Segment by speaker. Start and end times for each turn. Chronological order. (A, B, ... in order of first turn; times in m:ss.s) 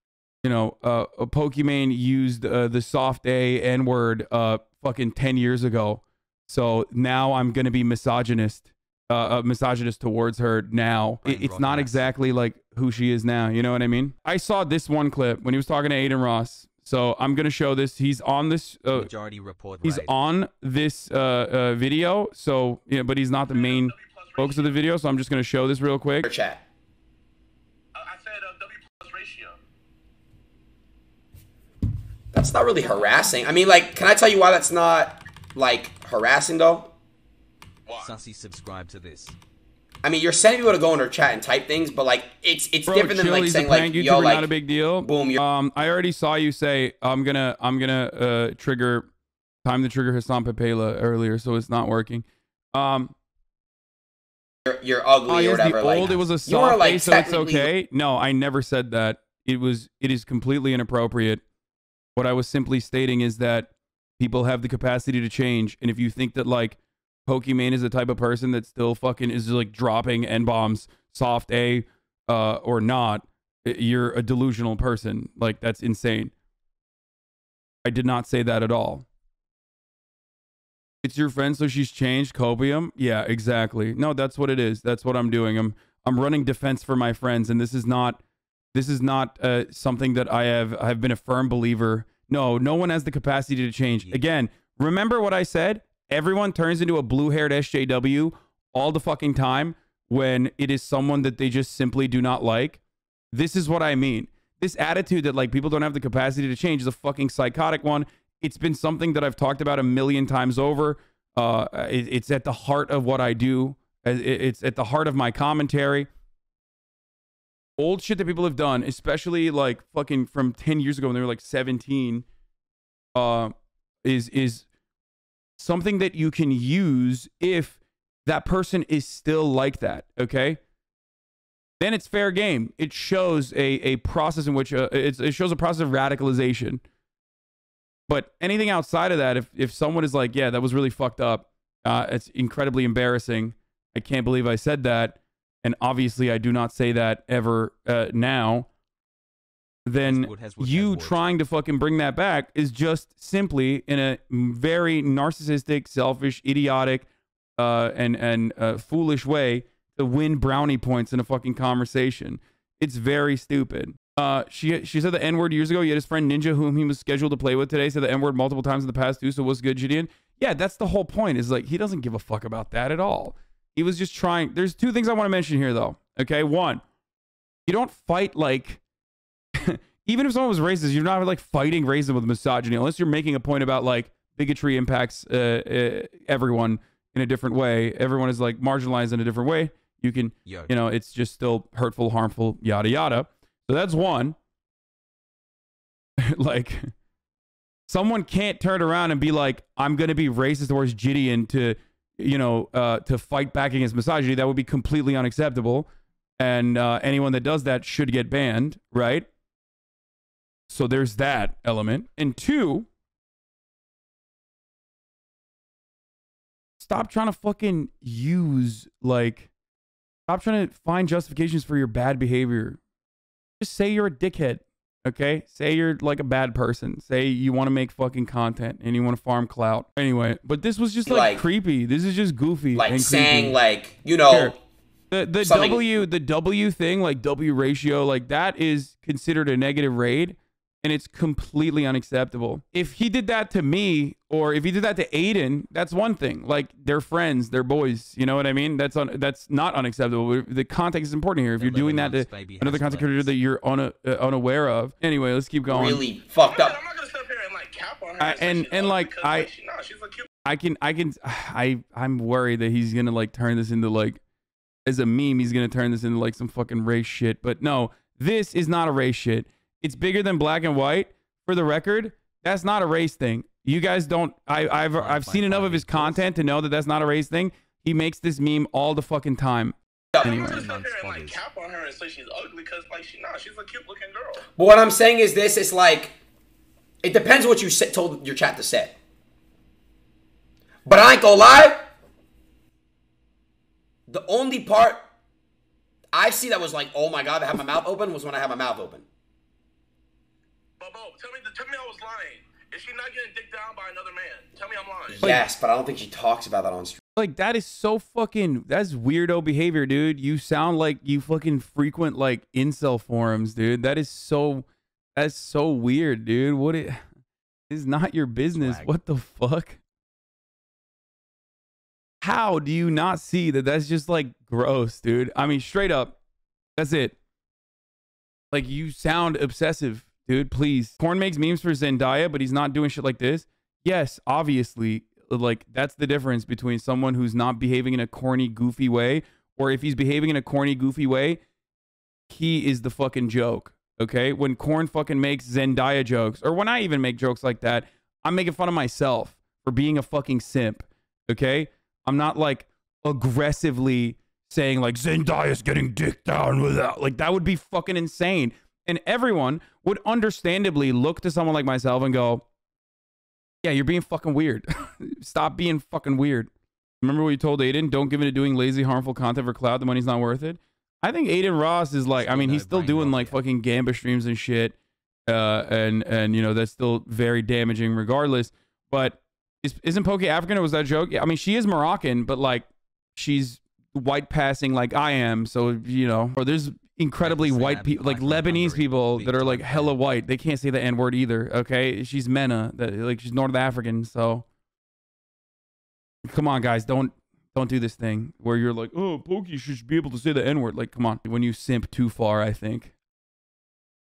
0:00.4-0:19.1 A
0:11.2-0:12.1 B
0:18.9-0:20.2 B
0:19.8-0:26.3 A
0:23.5-0:24.8 C
0:26.2-0:26.6 D
0:28.0-0:29.5 C
0:32.3-0:36.9 D
0:32.8-0:33.3 B
0:37.9-0:38.1 C
0:38.0-0:39.4 B
0:40.0-0:44.5 D
0:42.9-0:49.1 A
0:45.0-0:45.4 D
0:49.6-0:53.1 A
0:54.7-0:57.7 D
0:55.3-1:01.4 A
1:02.2-1:16.3 A
1:17.8-1:19.1 A
1:21.0-1:28.2 A
1:28.7-1:42.8 A
1:34.0-1:34.3 B
1:43.3-1:56.1 A
1:57.8-2:02.2 A
2:03.2-2:03.5 A
2:04.0-2:04.7 A
2:05.6-2:10.6 A
2:11.8-2:16.8 A
2:18.1-2:28.7 A
2:29.8-2:37.1 A
2:30.0-2:31.2 B
2:37.6-2:56.8 A
2:57.7-2:58.8 A
2:59.6-3:14.4 A
3:10.4-3:10.7 B
3:16.2-3:16.9 A
3:17.9-3:25.9 A
3:26.4-3:29.3 A
3:30.7-3:32.9 A
3:36.8-3:39.5 A
3:40.3-3:42.8 A
3:43.6-3:53.6 A
3:51.1-3:51.4 D
3:52.8-3:54.6 D
3:54.3-3:54.6 A
3:55.1-4:16.0 A
3:55.4-3:55.8 D
4:11.6-4:13.4 B
4:15.7-4:16.8 D
4:16.4-4:20.3 C
4:18.2-4:19.5 A
4:20.5-4:24.2 A
4:24.9-4:40.6 A
4:35.0-4:36.2 B
4:40.2-4:40.4 D
4:40.2-4:44.5 C
4:40.4-4:41.4 B
4:44.6-4:46.2 D
4:47.0-4:49.0 D
4:50.8-4:51.8 D
4:54.1-4:55.0 D
4:56.1-4:59.0 D
5:00.8-5:05.2 C
5:05.1-5:07.0 D
5:07.2-5:17.0 A
5:17.7-5:19.8 A
5:18.5-5:18.9 B
5:22.2-5:26.2 A
5:26.8-5:27.2 A
5:28.5-5:41.4 A
5:42.3-6:02.4 A
6:03.6-6:06.5 A
6:07.0-6:14.8 A
6:12.2-6:13.4 B
6:15.3-6:34.4 A
6:27.2-6:30.0 B
6:36.3-6:42.9 A